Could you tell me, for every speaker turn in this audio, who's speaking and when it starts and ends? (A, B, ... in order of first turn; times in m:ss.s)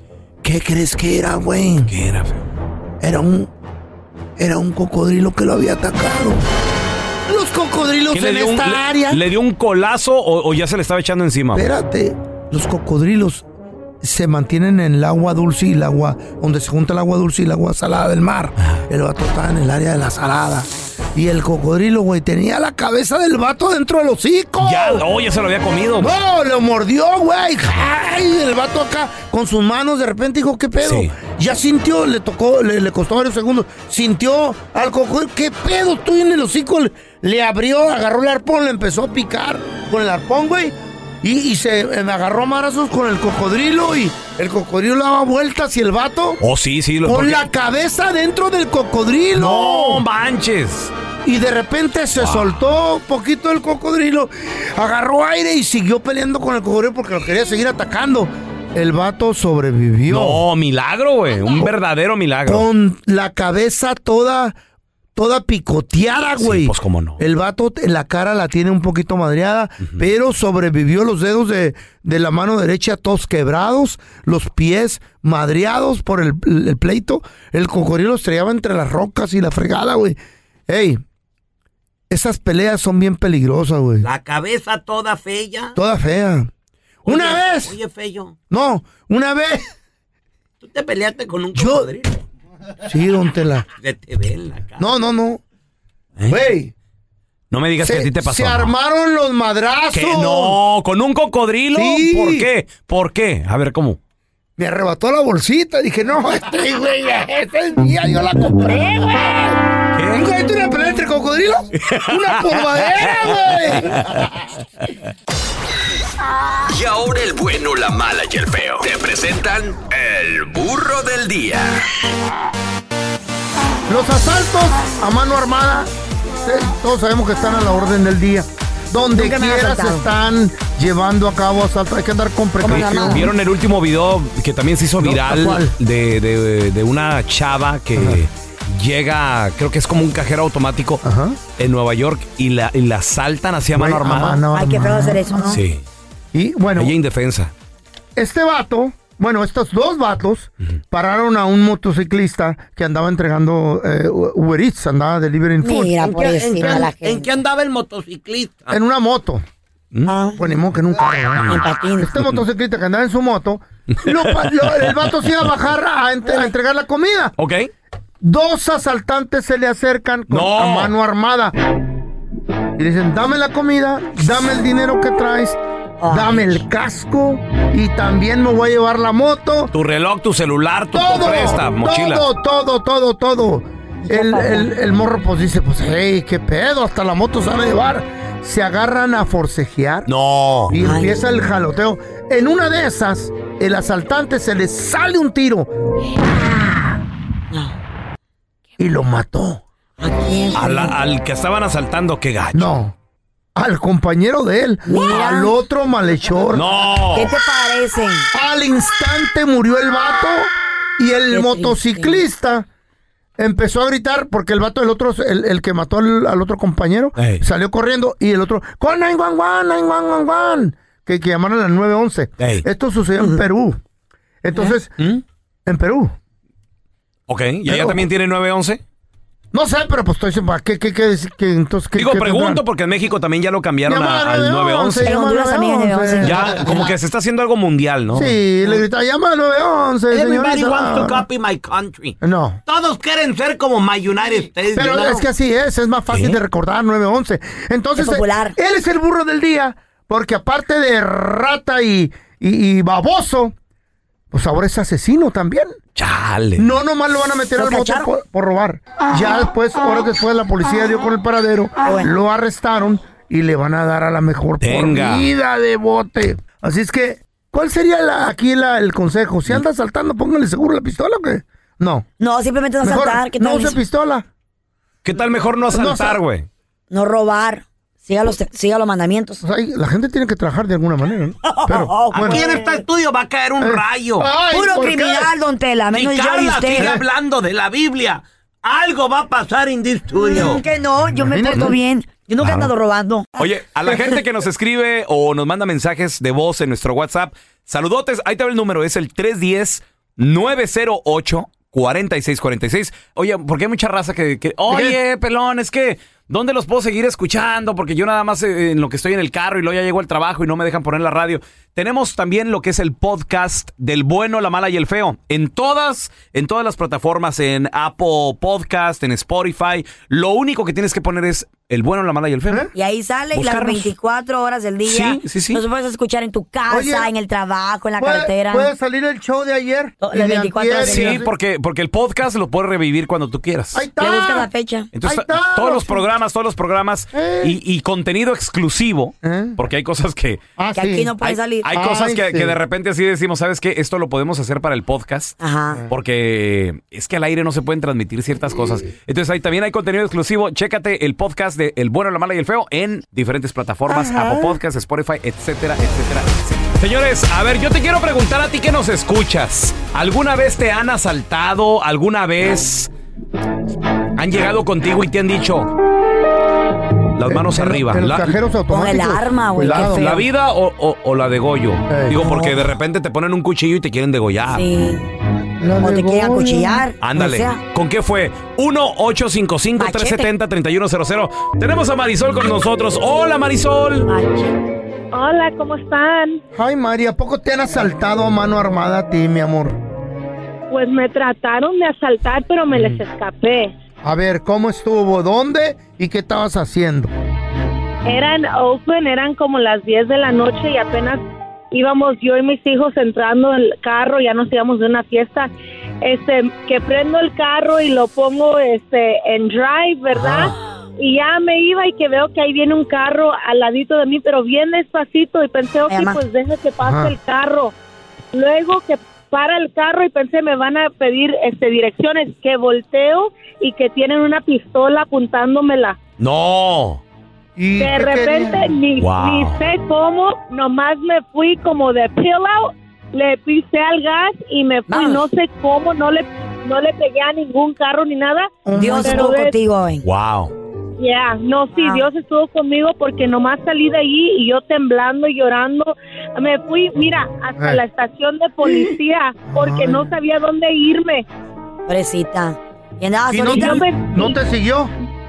0:00.4-0:01.9 A
0:01.9-0:02.4 B
0:03.0-0:03.5 A
0:04.4-0:06.4 A
0:07.3-0:09.2 A
0:08.1-0:11.7 B
0:11.5-0:13.4 A
0:14.0-0:25.0 A
0:24.6-0:26.1 B
0:26.0-0:46.4 A
0:30.8-0:31.1 B
0:46.4-0:47.4 B
0:47.0-0:50.0 A
0:49.4-0:50.9 B
0:51.2-1:00.4 A
0:52.2-0:52.7 B
1:00.1-1:02.7 B
1:02.4-1:04.6 A
1:05.2-1:20.2 A
1:06.4-1:07.2 B
1:20.7-1:21.0 A
1:22.1-1:24.1 A
1:24.0-1:25.8 C
1:25.7-1:26.5 A
1:27.0-1:28.4 C
1:27.0-1:27.8 A
1:28.5-1:29.6 A
1:30.6-1:32.2 C
1:31.5-1:31.9 A
1:32.9-1:33.6 A
1:33.8-1:34.9 C
1:34.8-1:35.4 A
1:36.3-1:36.7 A
1:37.5-1:38.7 B
1:37.8-1:40.6 A
1:39.9-1:44.0 B
1:41.7-1:42.5 A
1:44.6-1:54.4 A
1:49.9-1:50.2 B
1:51.8-1:54.3 B
1:56.8-2:01.6 D
2:03.9-2:05.9 A
2:06.4-2:13.2 A
2:09.1-2:10.0 E
2:12.6-2:13.3 E
2:12.7-2:21.0 B
2:15.0-2:15.7 A
2:21.0-2:21.4 A
2:21.6-2:24.4 B
2:23.7-2:25.5 A
2:24.5-2:25.6 E
2:25.5-2:25.8 B
2:26.3-2:26.9 A
2:26.8-2:27.5 B
2:28.2-2:36.9 A
2:35.6-2:37.3 E
2:36.0-2:38.7 C
2:38.7-2:39.4 A
2:40.0-2:40.6 E
2:40.4-2:47.3 A
2:41.4-2:42.2 E
2:44.0-2:45.1 B
2:46.2-2:46.5 E
2:47.4-2:47.7 B
2:48.2-2:51.5 A
2:50.3-2:50.9 B
2:52.8-2:59.7 A
2:56.0-2:56.6 E
2:59.7-3:02.2 B
3:00.9-3:10.1 A
3:04.1-3:04.7 E
3:10.0-3:10.7 B
3:10.7-3:15.7 A
3:10.7-3:11.4 E
3:16.1-3:17.0 E
3:17.5-3:17.8 E
3:18.8-3:19.6 A
3:20.0-3:21.0 E
3:20.5-3:22.7 B
3:22.5-3:22.9 A
3:23.6-3:26.8 A
3:24.8-3:25.5 E
3:26.5-3:27.3 B
3:27.1-3:28.3 E
3:28.3-3:32.7 A
3:31.3-3:32.2 E
3:33.4-3:43.8 A
3:37.2-3:37.4 B
3:42.4-3:42.6 B
3:43.2-3:43.4 E
3:44.4-3:44.9 A
3:45.6-3:46.2 A
3:47.3-3:48.8 B
3:47.6-3:48.0 A
3:49.5-3:52.6 A
3:52.0-3:55.1 B
3:53.9-3:56.9 A
3:55.0-3:56.8 E
3:56.2-3:58.3 B
3:58.1-4:01.2 A
4:00.1-4:05.3 C
4:02.2-4:02.6 A
4:04.7-4:13.5 A
4:06.1-4:06.4 B
4:08.0-4:08.6 E
4:14.3-4:15.7 A
4:16.0-4:16.6 B
4:16.6-4:32.0 A
4:17.6-4:18.1 E
4:21.8-4:22.1 E
4:24.6-4:25.3 B
4:32.2-4:33.8 E
4:32.8-4:34.3 A
4:35.0-4:36.5 B
4:35.7-4:36.2 A
4:36.9-4:39.4 E
4:39.4-4:42.5 A
4:41.4-4:42.8 E
4:42.1-4:44.4 C
4:43.6-4:45.3 A
4:44.4-4:47.0 E
4:45.9-4:50.6 C
4:46.7-4:47.0 A
4:50.1-4:54.2 E
4:51.1-4:51.7 A
4:52.4-4:52.7 B
4:53.4-5:22.6 B
5:04.7-5:05.0 A
5:22.7-5:28.7 E
5:23.3-5:23.9 B
5:24.8-5:25.6 B
5:26.7-5:27.1 A
5:28.0-5:31.3 A
5:30.0-5:31.3 E
5:30.8-5:33.8 B
5:33.7-5:34.5 A
5:34.0-5:34.9 E
5:34.9-5:40.4 B
5:35.0-5:36.0 A
5:37.1-5:37.5 A
5:39.2-5:39.6 A
5:40.6-5:41.1 A
5:40.7-5:41.7 E
5:41.2-5:45.3 B
5:41.7-5:42.6 A
5:45.4-5:45.8 E
5:45.9-6:02.9 B
5:53.9-5:54.5 A
6:04.2-6:05.7 B
6:07.2-6:08.4 B
6:07.2-6:10.2 A
6:08.7-6:10.2 E
6:09.6-6:14.6 B
6:11.9-6:12.6 A
6:14.5-6:15.1 E
6:15.6-6:16.8 A
6:15.8-6:17.6 E
6:17.0-6:24.1 B
6:19.8-6:20.3 E
6:24.0-6:24.6 E
6:25.1-6:26.4 F
6:26.6-6:29.8 A
6:30.7-6:33.7 F
6:32.7-6:33.0 A
6:34.0-6:37.1 A
6:38.1-6:41.2 F
6:41.7-6:45.5 F
6:46.0-6:57.7 F
6:50.1-6:50.5 A
6:55.9-6:56.2 E
6:56.8-6:57.1 A
6:58.3-7:06.0 F
7:06.2-7:07.0 B
7:07.6-7:08.7 A
7:07.8-7:18.5 F
7:09.0-7:09.6 B
7:14.9-7:15.2 E
7:18.6-7:19.3 A
7:18.7-7:20.0 E
7:19.0-7:19.6 F
7:20.0-7:20.5 B
7:21.0-7:31.2 F
7:21.7-7:22.1 E
7:27.6-7:27.8 A
7:28.6-7:29.0 A
7:29.5-7:30.1 A
7:31.9-7:33.8 E
7:33.3-7:34.9 A
7:33.5-7:34.4 F